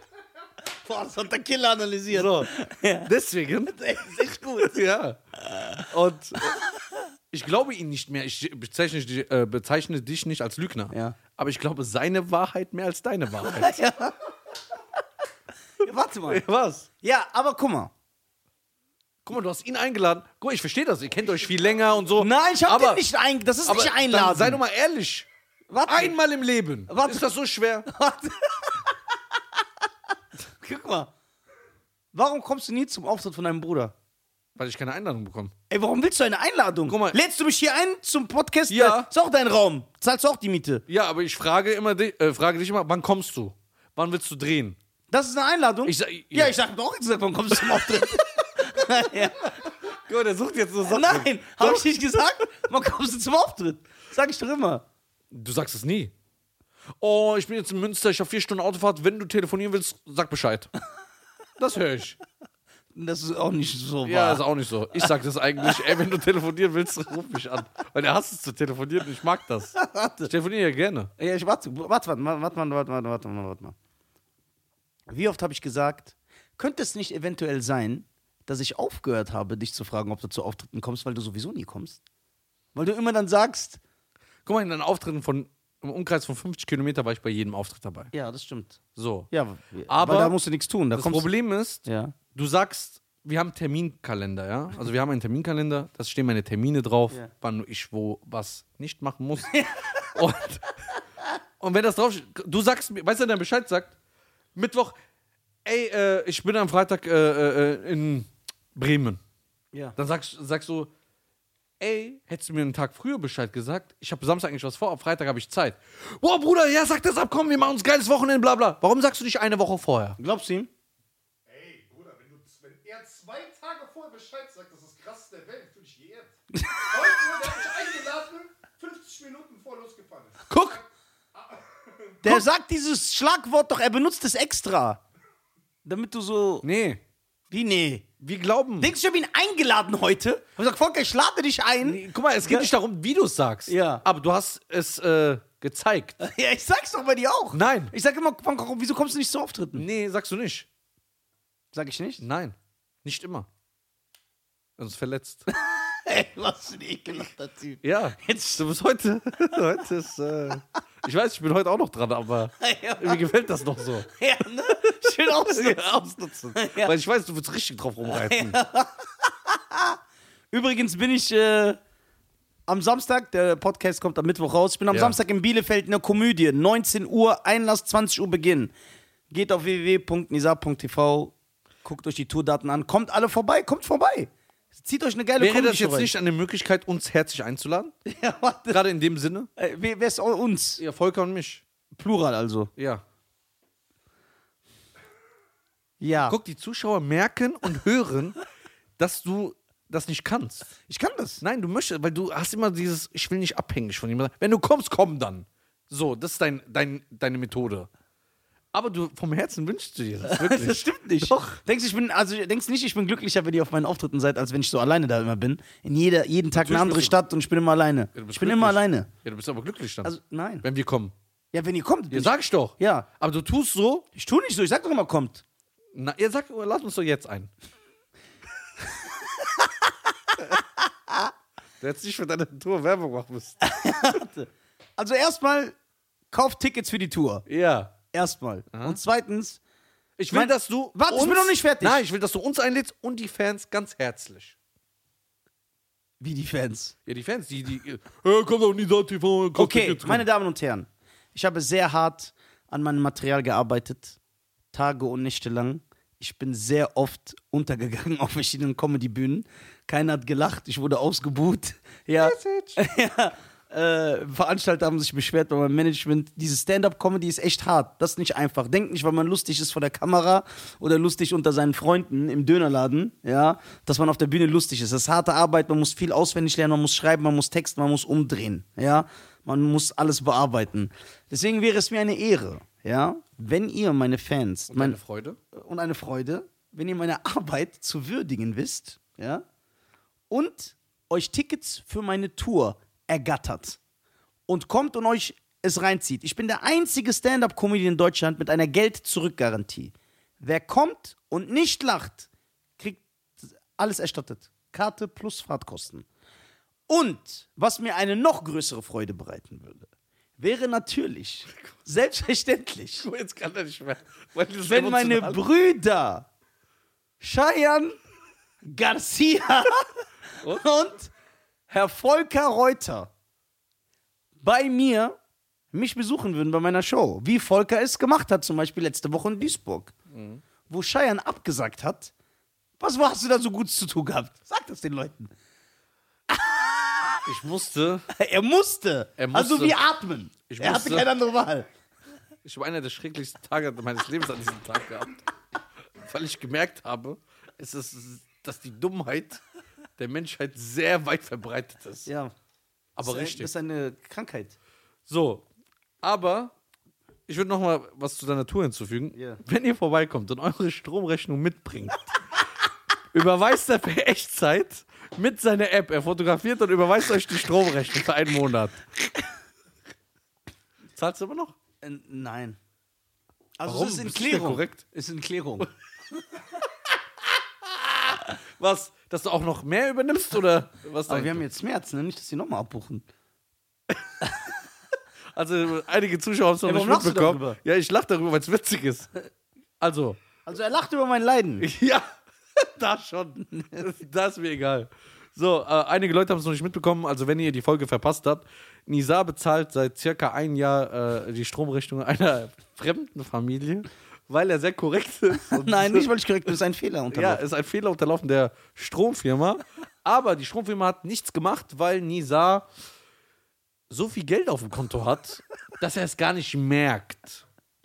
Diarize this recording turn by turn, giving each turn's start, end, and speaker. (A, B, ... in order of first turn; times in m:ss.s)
0:00.6-0:03.1 A
0:02.1-0:02.5 B
0:03.0-0:03.8 B
0:03.7-0:05.9 A
0:04.6-0:05.2 B
0:05.8-0:06.6 B
0:06.4-0:07.0 A
0:07.3-0:13.8 B
0:10.9-0:11.2 A
0:13.4-0:14.1 A
0:15.8-0:16.4 A
0:16.3-0:16.9 B
0:17.0-0:17.9 A
0:19.2-0:23.0 B
0:21.2-0:22.1 C
0:22.2-0:24.6 A
0:23.6-0:25.3 B
0:25.7-0:26.1 A
0:25.8-0:27.9 B
0:26.9-0:27.3 A
0:27.8-0:29.4 A
0:30.5-0:31.1 A
0:32.1-0:33.9 A
0:34.6-0:35.5 B
0:35.7-0:40.8 A
0:36.9-0:37.2 B
0:38.7-0:39.1 B
0:40.9-0:44.8 B
0:45.1-0:49.5 A
0:45.8-0:46.6 B
0:50.0-0:51.8 B
0:50.8-0:54.8 A
0:55.3-0:56.1 B
0:57.0-1:00.7 B
1:01.6-1:02.2 B
1:02.9-1:04.4 A
1:04.0-1:11.1 B
1:09.8-1:10.3 A
1:11.2-1:13.7 A
1:15.1-1:22.0 A
1:22.7-1:23.8 A
1:24.4-1:28.1 B
1:28.1-1:28.8 A
1:29.0-1:29.3 B
1:29.3-1:31.3 A
1:29.9-1:30.4 B
1:30.9-1:40.7 B
1:31.8-1:32.1 A
1:39.5-1:40.0 A
1:41.6-1:44.0 B
1:44.5-1:45.0 B
1:45.6-1:49.2 B
1:50.0-1:50.9 B
1:51.8-2:00.2 B
2:00.2-2:00.7 A
2:01.4-2:12.4 C
2:06.5-2:07.5 A
2:10.5-2:10.8 B
2:12.2-2:15.0 A
2:15.8-2:16.6 A
2:16.6-2:17.0 B
2:17.5-2:18.0 A
2:18.2-2:18.9 B
2:18.8-2:22.7 A
2:21.8-2:26.2 B
2:23.7-2:24.0 A
2:26.2-2:29.8 A
2:27.5-2:27.9 B
2:29.7-2:30.7 B
2:31.7-2:32.2 A
2:32.2-2:33.5 B
2:34.8-2:35.5 B
2:35.5-2:38.6 A
2:37.8-2:44.1 B
2:42.6-2:43.2 A
2:44.1-2:46.9 A
2:44.7-2:48.6 B
2:48.0-2:50.0 A
2:50.5-2:51.8 A
2:52.7-2:58.7 A
2:54.9-2:55.2 B
2:59.3-3:06.1 A
3:05.4-3:07.9 B
3:08.0-3:08.8 A
3:08.7-3:09.5 B
3:09.6-3:10.8 A
3:10.8-3:11.6 B
3:11.9-3:12.7 A
3:12.8-3:13.0 B
3:16.0-3:16.4 A
3:16.2-3:18.4 B
3:19.0-3:20.7 B
3:20.9-3:21.4 A
3:21.4-3:27.9 B
3:28.7-3:31.6 B
3:30.2-3:39.1 A
3:36.5-3:37.2 B
3:38.1-3:41.1 B
3:40.0-3:40.6 A
3:41.5-3:43.1 A
3:42.1-3:44.0 B
3:44.1-3:45.4 A
3:45.9-3:47.5 B
3:48.9-3:51.3 A
3:51.8-3:53.6 B
3:53.6-3:55.8 A
3:56.3-3:57.4 A
3:57.4-3:57.9 B
3:58.1-3:59.6 A
3:58.7-3:59.0 B
4:00.2-4:04.6 B
4:00.3-4:02.0 A
4:06.2-4:06.9 A
4:07.0-4:10.2 B
4:09.6-4:14.2 A
4:14.7-4:45.0 A
4:22.2-4:22.8 B
4:44.7-4:45.4 B
4:45.5-4:49.4 A
4:50.3-4:53.8 A
4:54.5-5:06.0 A
5:06.9-5:13.1 A
5:13.0-5:15.4 B
5:14.6-5:16.3 A
5:17.2-5:18.0 A
5:18.6-5:21.1 A
5:21.7-5:23.1 A
5:24.4-5:25.2 A
5:25.7-5:29.9 A
5:30.1-5:30.4 B
5:30.7-5:32.1 A
5:32.8-5:35.3 A
5:36.3-5:37.2 A
5:37.2-5:38.1 B
5:38.1-5:41.7 A
5:39.2-5:39.8 B
5:40.5-5:41.1 B
5:42.4-5:45.2 B
5:46.0-5:49.4 B
5:50.0-5:52.1 B
5:52.0-5:52.3 A
5:53.0-5:53.5 B
5:53.0-5:54.6 A
5:55.1-5:55.4 B
5:56.0-5:56.5 B
5:57.3-6:02.0 B
5:59.1-5:59.4 A
6:03.1-6:08.8 B
6:10.9-6:11.5 B
6:11.8-6:12.6 A
6:13.6-6:15.7 A
6:13.6-6:14.8 B
6:17.7-6:21.4 B
6:21.1-6:23.0 A
6:25.3-6:29.1 B
6:26.6-6:27.6 A
6:29.8-6:30.2 B
6:30.4-6:31.7 A
6:31.6-6:46.1 B
6:33.6-6:33.8 A
6:45.5-6:47.4 A
6:47.1-6:52.7 B
6:53.9-6:57.4 B